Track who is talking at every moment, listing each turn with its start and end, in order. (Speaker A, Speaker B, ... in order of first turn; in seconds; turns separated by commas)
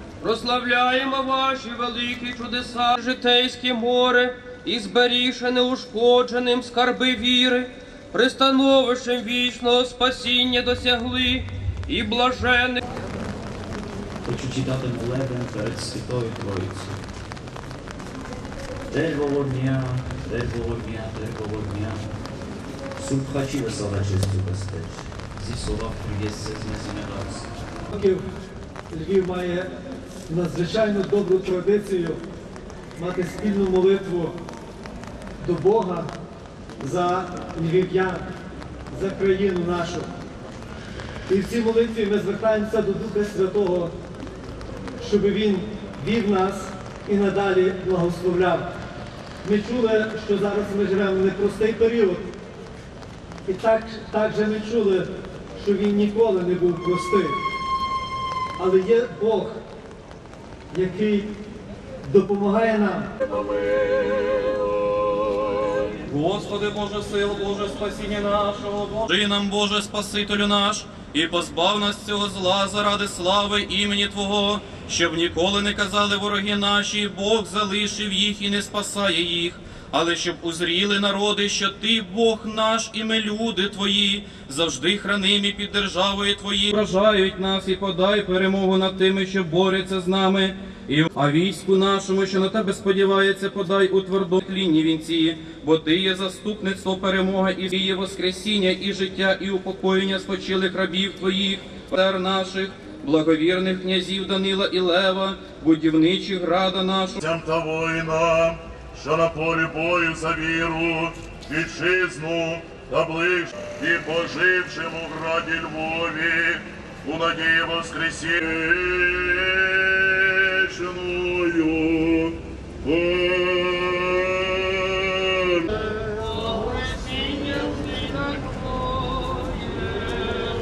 Speaker A: 0.2-12.8, Speaker B: 14.2-17.0, Speaker B: 18.9-22.1, Speaker B: 23.0-27.5, Speaker C: 27.9-28.2, Speaker C: 28.9-29.7, Speaker C: 30.3-32.2, Speaker C: 33.0-34.4, Speaker C: 35.4-36.1, Speaker C: 36.8-38.3, Speaker C: 38.9-40.1, Speaker C: 41.3-43.9, Speaker C: 45.0-48.7, Speaker C: 49.4-52.2, Speaker C: 53.5-57.4, Speaker C: 58.6-59.6, Speaker C: 60.7-61.3, Speaker C: 62.0-63.1, Speaker D: 66.1-107.2, Speaker E: 107.2-125.6, Speaker A: 126.1-129.8